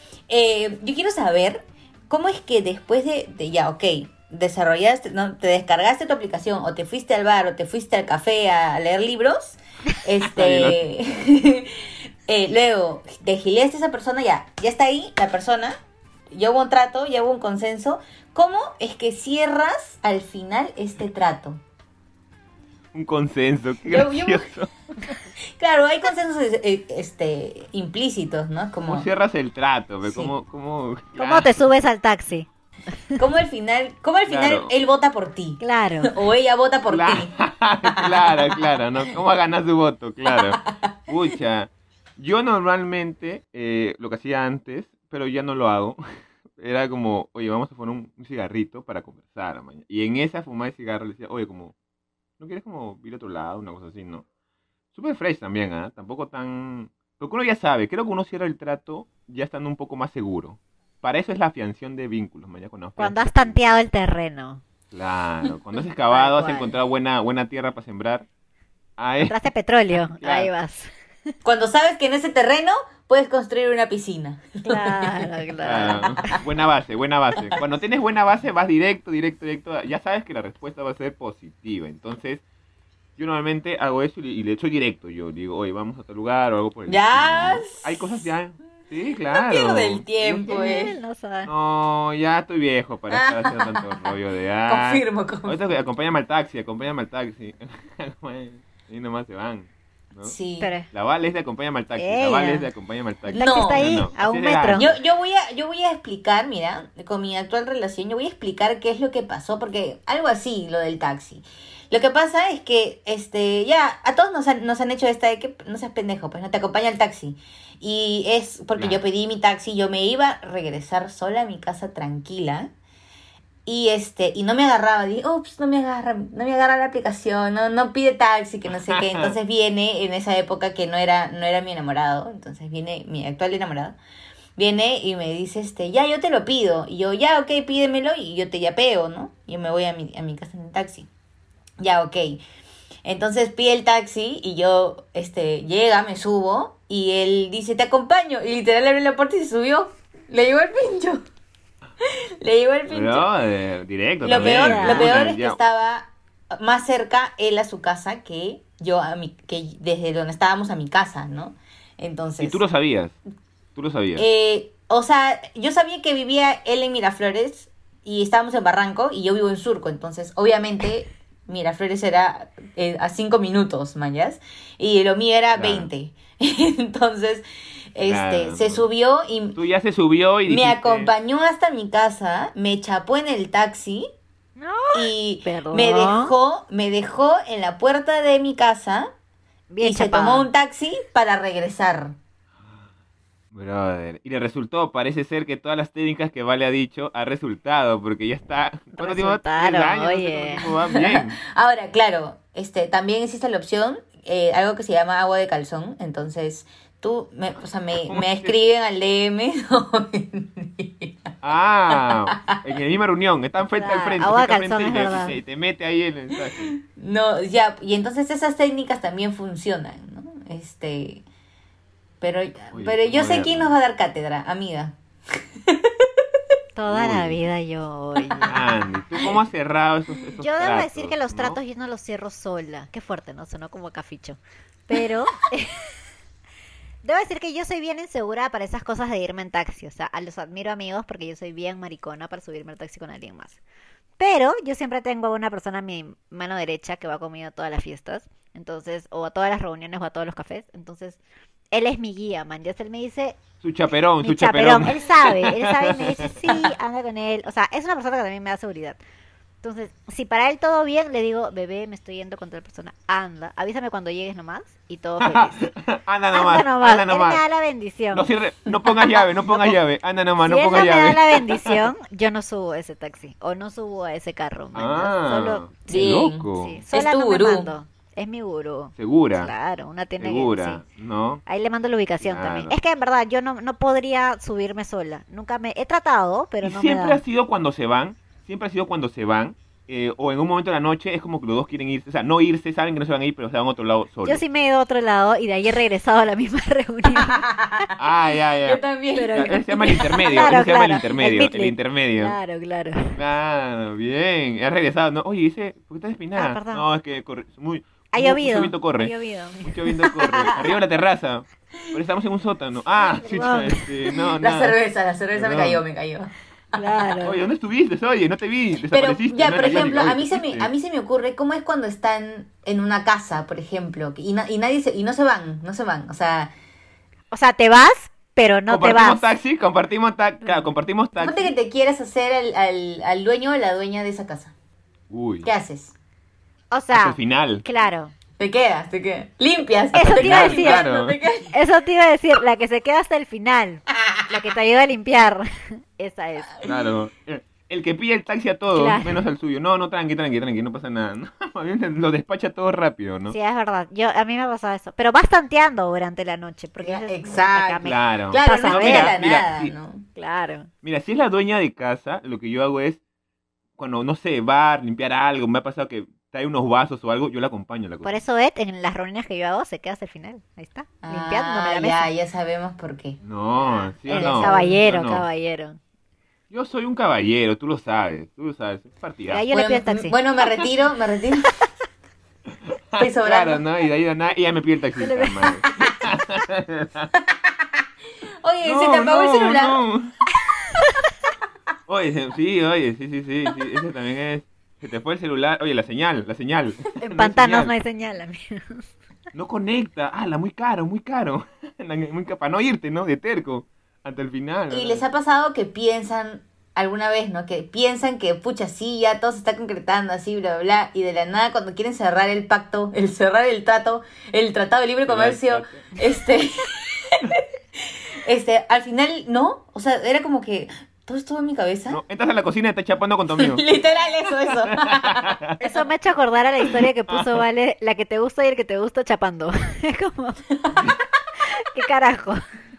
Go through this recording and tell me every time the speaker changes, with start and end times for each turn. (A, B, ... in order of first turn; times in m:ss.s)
0:00.3-0:15.8 A
0:10.2-0:10.8 B
0:16.3-0:21.6 A
0:22.9-0:24.7 B
0:23.9-0:24.5 A
0:25.6-0:29.1 A
0:28.8-0:31.5 B
0:31.2-0:32.5 C
0:33.2-0:38.5 A
0:34.3-0:34.7 B
0:35.6-0:36.1 C
0:36.9-0:46.0 B
0:40.3-0:40.9 A
0:46.6-0:51.7 B
0:52.4-0:54.2 B
0:54.9-1:03.6 B
1:03.0-1:04.6 C
1:04.9-1:08.3 B
1:06.1-1:06.8 C
1:09.0-1:09.4 B
1:09.2-1:10.9 C
1:10.0-1:10.5 B
1:11.4-1:16.4 A
1:14.6-1:16.4 C
1:15.6-1:22.4 B
1:23.2-1:30.6 B
1:26.9-1:27.9 A
1:29.3-1:31.0 A
1:30.5-1:31.5 C
1:31.5-1:40.4 B
1:33.1-1:34.1 A
1:34.7-1:35.6 A
1:40.2-1:40.7 A
1:40.6-1:40.9 C
1:40.9-1:45.0 B
1:42.0-1:42.7 C
1:43.3-1:44.0 A
1:43.3-1:44.9 C
1:44.7-2:02.7 A
2:03.7-2:14.0 A
2:08.7-2:09.4 B
2:14.6-2:21.1 A
2:21.8-2:22.4 A
2:23.0-2:31.2 A
2:32.4-2:33.3 A
2:32.9-2:35.6 B
2:34.2-2:42.6 A
2:34.3-2:35.2 C
2:42.4-2:43.2 B
2:43.8-2:44.3 B
2:44.2-2:59.6 A
2:55.5-2:55.9 B
2:58.0-2:58.9 B
2:59.6-3:01.1 B
3:00.5-3:04.1 A
3:04.6-3:06.3 C
3:04.9-3:09.1 A
3:09.7-3:10.5 C
3:09.8-3:12.2 A
3:13.5-3:21.4 B
3:19.0-3:20.7 C
3:20.9-3:31.3 A
3:28.0-3:28.6 B
3:31.4-3:36.7 B
3:31.9-3:32.6 A
3:33.7-3:35.4 C
3:36.6-3:41.2 A
3:42.2-3:45.0 A
3:42.7-3:43.8 B
3:45.7-3:46.1 A
3:46.8-3:48.6 C
3:46.9-3:47.4 B
3:48.5-3:51.6 B
3:50.4-3:55.8 C
3:57.0-4:03.6 C
4:04.2-4:11.2 C
4:11.7-4:13.4 C
4:13.6-4:16.5 B
4:14.2-4:19.0 C
4:19.6-4:25.7 C
4:25.2-4:27.4 B
4:26.3-4:28.3 C
4:28.1-4:31.8 B
4:29.2-4:29.8 C
4:30.4-4:40.8 C
4:34.7-4:36.8 B
4:35.9-4:37.7 A
4:39.0-4:39.5 B
4:40.2-4:41.4 B
4:41.5-4:47.2 C
4:42.2-4:42.8 B
4:46.6-4:54.4 B
4:54.2-4:57.5 C
4:57.2-4:57.9 A
4:58.0-5:02.4 B
4:58.6-5:00.0 A
4:59.2-5:03.2 C
5:03.2-5:09.1 B
5:06.4-5:06.8 C
5:08.1-5:10.7 C
5:09.6-5:14.8 B
5:13.1-5:14.2 C
5:14.4-5:16.3 A
5:15.3-5:15.8 B
5:16.7-5:17.4 C
5:17.2-5:20.7 B
5:18.9-5:26.5 A
5:27.3-5:29.3 C
5:28.7-5:31.5 B
5:31.2-5:34.5 A
5:35.1-5:35.5 B
5:35.4-5:36.0 A
5:36.7-5:38.1 C
5:36.9-5:37.6 B
5:38.4-5:41.5 A
5:39.9-5:40.9 C
5:40.0-5:41.2 B
5:41.5-5:46.6 C
5:46.6-5:53.4 B
5:48.7-5:49.2 C
5:53.3-5:59.2 C
5:56.8-6:00.1 A
5:57.8-5:59.7 B
6:00.2-6:00.7 C
6:00.8-6:03.0 B
6:03.8-6:08.2 B
6:08.0-6:12.1 C
6:11.0-6:13.2 A
6:13.2-6:15.3 B
6:14.1-6:14.8 A
6:14.1-6:15.8 C
6:16.5-6:19.4 B
6:19.3-6:20.2 C
6:19.5-6:21.5 A
6:22.7-6:27.1 B
6:23.0-6:23.6 A
6:25.0-6:25.6 C
6:28.4-6:29.8 A
6:28.6-6:30.1 B
6:31.9-6:37.7 B
6:37.0-6:38.9 C
6:39.3-6:45.0 B
6:44.7-7:02.0 A
6:55.1-6:55.9 B
7:01.9-7:03.6 B
7:03.4-7:05.4 A
7:04.5-7:05.6 B
7:05.6-7:10.4 C
7:06.6-7:07.4 B
7:11.4-7:12.4 C